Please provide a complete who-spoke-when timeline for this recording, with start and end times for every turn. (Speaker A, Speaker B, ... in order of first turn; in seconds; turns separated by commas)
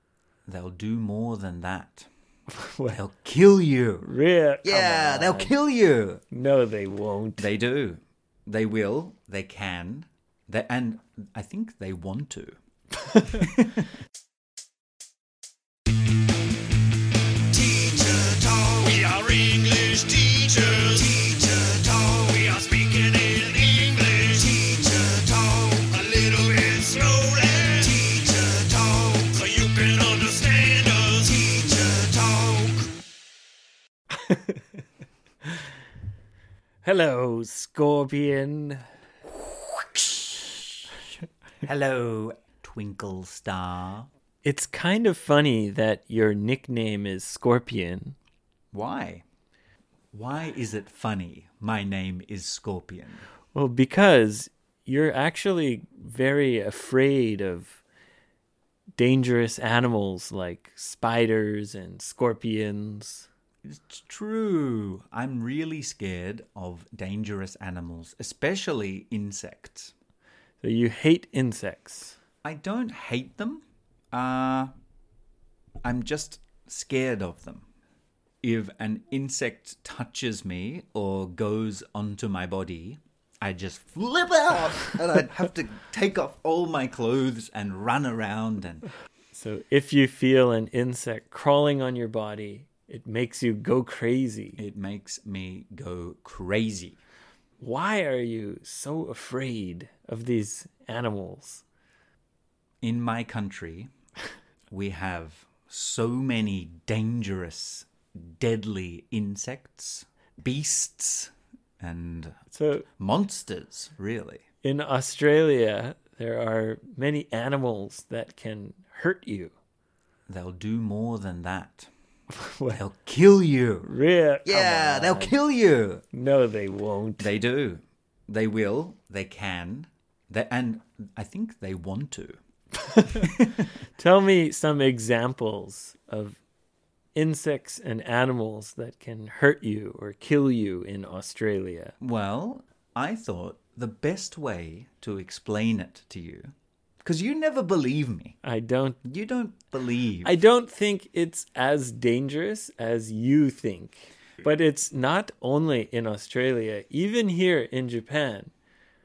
Speaker A: 0.5-2.1, Speaker B: 2.5-3.0, Speaker A: 2.9-4.1, Speaker B: 4.0-5.5, Speaker A: 4.6-6.2, Speaker B: 6.3-7.5, Speaker A: 7.4-12.6, Speaker A: 13.1-13.9, Speaker C: 17.5-32.9, Speaker B: 34.3-34.5, Speaker B: 36.8-38.9, Speaker A: 41.6-44.1, Speaker B: 44.4-48.1, Speaker A: 48.7-49.2, Speaker A: 50.1-53.2, Speaker B: 53.5-57.8, Speaker B: 59.0-63.3, Speaker A: 63.6-69.9, Speaker B: 70.6-72.2, Speaker A: 72.4-74.7, Speaker A: 75.8-77.6, Speaker A: 78.4-88.9, Speaker B: 89.3-94.6, Speaker A: 94.6-97.0, Speaker B: 97.6-101.6, Speaker A: 102.8-103.9, Speaker A: 104.7-112.4, Speaker B: 112.5-112.9, Speaker A: 113.0-114.4, Speaker B: 114.6-119.5, Speaker A: 120.3-121.9, Speaker B: 122.3-122.8, Speaker A: 122.7-123.9, Speaker B: 123.8-125.3, Speaker A: 124.4-126.0, Speaker B: 126.1-127.3, Speaker A: 127.2-132.4, Speaker B: 132.8-136.4, Speaker A: 133.1-133.7, Speaker B: 137.1-141.9, Speaker A: 142.0-146.5, Speaker A: 147.0-148.4, Speaker B: 148.4-149.0, Speaker A: 149.0-150.3, Speaker B: 150.2-158.5